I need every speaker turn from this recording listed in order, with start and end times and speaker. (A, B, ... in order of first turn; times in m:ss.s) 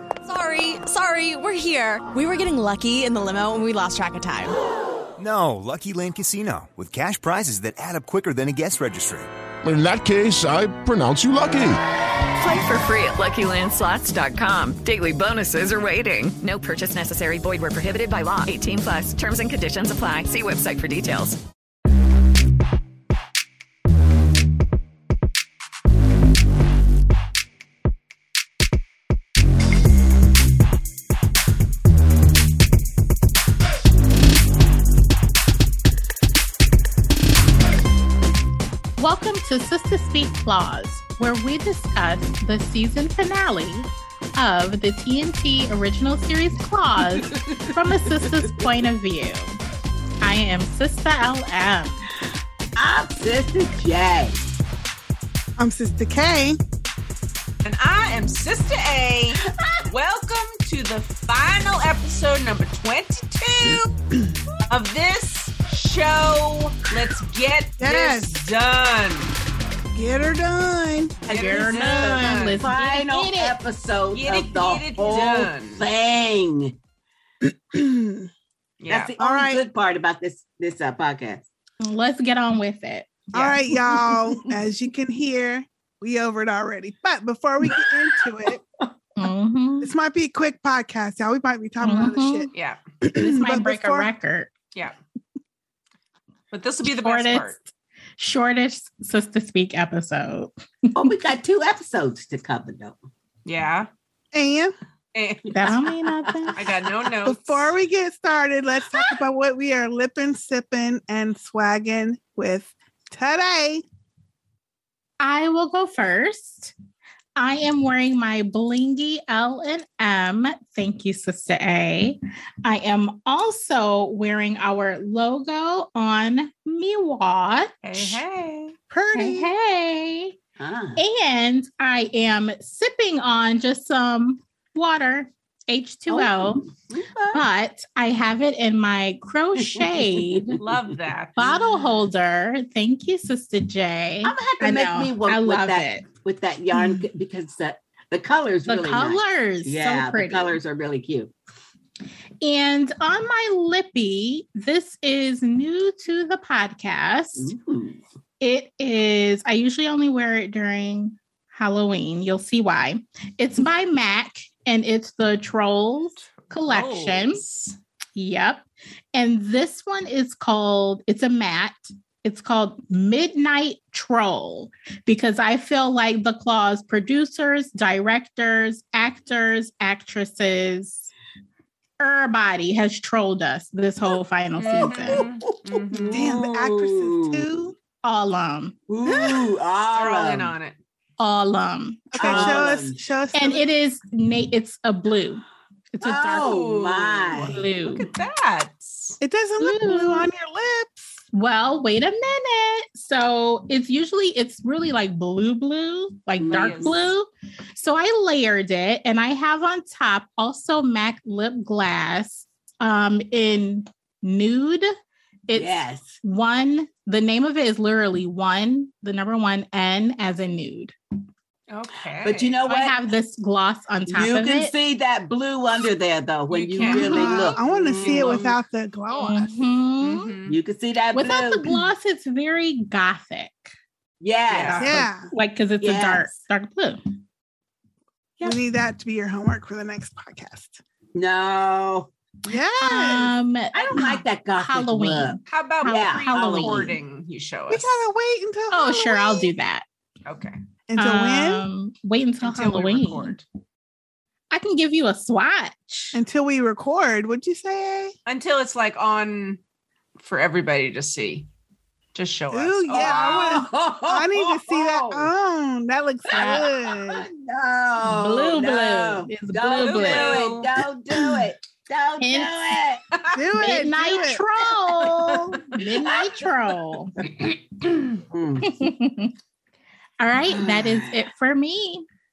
0:00.2-0:04.6 A
0:05.2-0:09.3 B
0:09.6-0:11.8 C
0:12.4-0:21.4 D
0:39.0-0:49.6 E
0:50.2-0:52.1 E
0:52.8-0:54.4 F
0:55.6-0:56.6 G
0:57.6-1:04.0 H
0:59.5-0:59.8 F
1:04.7-1:09.3 H
1:07.8-1:08.3 G
1:09.9-1:11.2 G
1:11.3-1:12.7 H
1:11.3-1:16.8 F
1:11.3-1:13.6 E
1:14.1-1:15.8 H
1:17.4-1:18.3 G
1:18.8-1:19.1 H
1:18.9-1:21.4 F
1:19.2-1:19.6 G
1:21.8-1:23.1 E
1:23.3-1:23.6 H
1:23.3-1:28.6 G
1:29.2-1:29.9 E
1:29.8-1:32.5 G
1:31.8-1:32.5 E
1:32.5-1:32.8 H
1:33.0-1:34.1 G
1:33.2-1:34.5 E
1:36.5-1:37.6 H
1:36.8-1:40.9 E
1:41.0-1:43.0 F
1:43.5-1:43.9 H
1:44.3-1:44.8 G
1:45.2-1:45.8 H
1:45.5-1:46.6 E
1:46.5-1:47.7 H
1:47.2-1:53.8 G
1:55.2-1:56.7 E
1:57.4-2:08.2 E
2:07.8-2:08.8 H
2:08.9-2:09.5 G
2:09.1-2:10.4 E
2:10.6-2:11.0 F
2:11.0-2:16.7 E
2:16.1-2:17.4 F
2:17.3-2:20.6 E
2:19.7-2:20.6 F
2:20.6-2:21.5 H
2:21.4-2:26.0 E
2:24.2-2:31.3 F
2:26.7-2:27.0 E
2:28.7-2:30.6 E
2:32.4-2:37.5 E
2:37.4-2:38.0 F
2:38.4-2:47.4 E
2:46.4-2:47.8 H
2:48.2-3:01.1 E
3:02.0-3:05.2 E
3:04.6-3:06.2 H
3:04.7-3:07.5 F
3:06.1-3:07.8 G
3:08.0-3:08.8 E
3:08.9-3:10.5 F
3:09.1-3:09.6 G
3:09.9-3:10.8 H
3:11.2-3:12.6 E
3:12.2-3:13.6 G
3:12.2-3:13.0 F
3:13.4-3:15.4 E
3:15.9-3:16.5 E
3:16.0-3:17.6 F
3:16.4-3:19.2 H
3:17.4-3:18.1 E
3:19.2-3:21.2 G
3:19.6-3:20.3 E
3:21.3-3:35.0 E
3:26.4-3:27.1 F
3:26.5-3:27.1 H
3:35.5-3:41.0 E
3:35.5-3:36.2 F
3:41.7-3:42.6 H
3:42.2-3:43.0 F
3:42.7-3:44.7 E
3:44.1-3:48.6 F
3:46.5-3:48.5 H
3:46.8-3:47.2 E
3:46.8-3:49.6 G
3:49.1-3:50.4 E
3:50.0-3:50.6 H
3:50.5-3:51.8 F
3:51.1-3:53.7 E
3:54.2-3:55.1 F
3:54.5-3:55.0 H
3:54.8-3:55.3 G
3:55.3-3:57.0 E
3:55.8-3:56.3 F
3:58.4-4:00.8 G
4:01.2-4:02.1 F
4:02.5-4:03.3 G
4:02.8-4:06.9 E
4:03.7-4:07.0 F
4:05.5-4:08.1 H
4:07.7-4:09.5 G
4:08.7-4:09.8 E
4:10.3-4:10.6 H
4:10.9-4:11.6 G
4:11.0-4:13.4 E
4:12.4-4:13.4 G
4:14.5-4:16.2 E
4:16.1-4:18.1 G
4:18.3-4:19.6 H
4:20.2-4:21.5 H
4:22.1-4:23.6 H
4:22.5-4:27.3 G
4:23.0-4:25.3 F
4:26.3-4:26.7 E
4:26.3-4:33.0 F
4:28.0-4:30.4 E
4:29.8-4:30.7 H
4:32.2-4:32.8 E
4:33.2-4:33.8 H
4:33.3-4:34.4 G
4:33.6-4:37.1 E
4:35.8-4:36.4 F
4:37.2-4:38.1 H
4:38.3-4:38.7 F
4:38.6-4:39.3 E
4:40.2-4:42.1 E
4:40.5-4:41.2 F